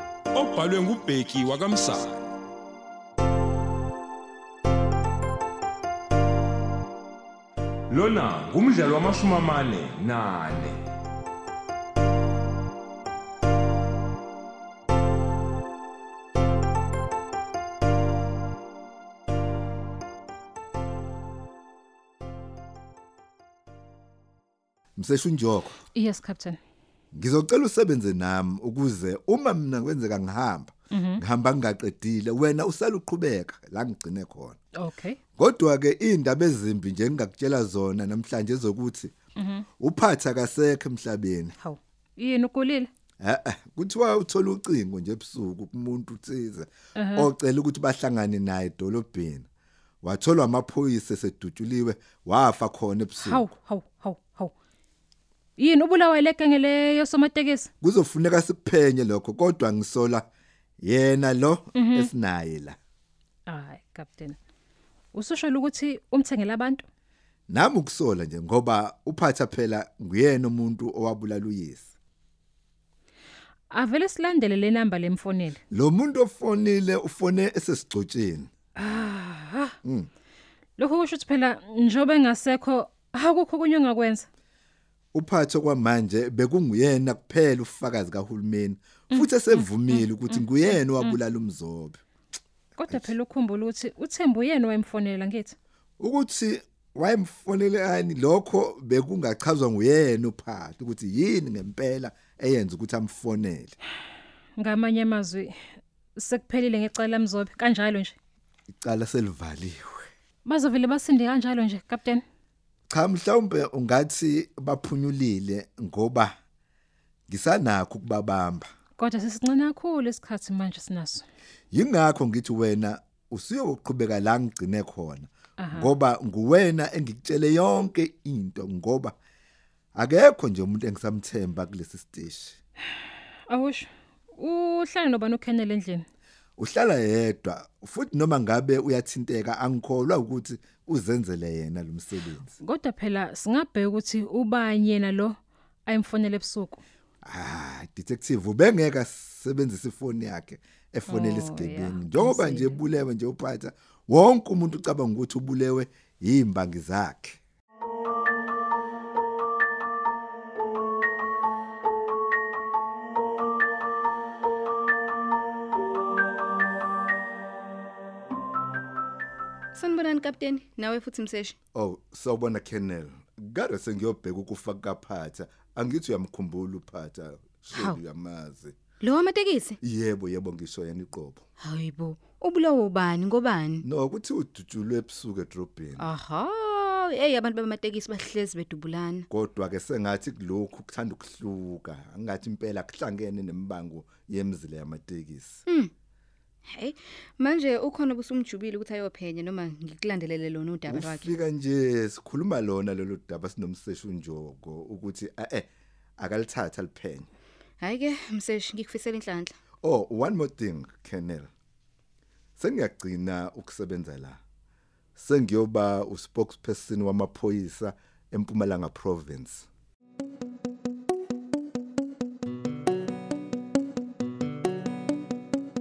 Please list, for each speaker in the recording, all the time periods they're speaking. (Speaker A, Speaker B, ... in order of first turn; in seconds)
Speaker A: 0.3-2.3, 7.9-10.8
Speaker B: 25.0-25.8, 27.1-34.6, 35.4-39.1, 39.8-41.5, 43.2-49.5, 50.0-53.4, 57.8-60.3, 60.8-62.8, 67.5-71.9, 75.7-78.5, 79.8-80.1, 85.1-92.0, 96.0-103.8, 108.8-110.0, 112.9-116.3, 117.3-118.7, 121.7-129.1, 129.9-132.6, 136.6-142.5, 147.2-157.4, 171.7-178.7, 179.8-181.4, 183.8-186.1, 189.3-195.6, 200.9-205.7, 206.2-207.3, 209.8-211.5, 212.6-214.4, 215.2-219.7
Speaker C: 25.9-26.6, 30.9-31.2, 34.8-35.2, 39.4-39.6, 41.6-42.9, 47.0-47.3, 53.2-54.5, 55.6-57.7, 61.7-62.1, 63.5-64.4, 65.1-66.8, 73.7-75.6, 78.8-79.7, 80.8-84.3, 89.1-90.4, 92.8-95.5, 104.6-105.5, 106.2-108.2, 110.4-112.2, 119.0-121.2, 125.6-125.9, 133.5-136.1, 142.6-146.8, 151.1-152.8
Speaker D: 169.7-171.6, 177.7-178.0, 179.0-179.8, 181.6-183.8, 186.0-189.3, 195.7-195.9, 196.7-201.4, 207.8-209.5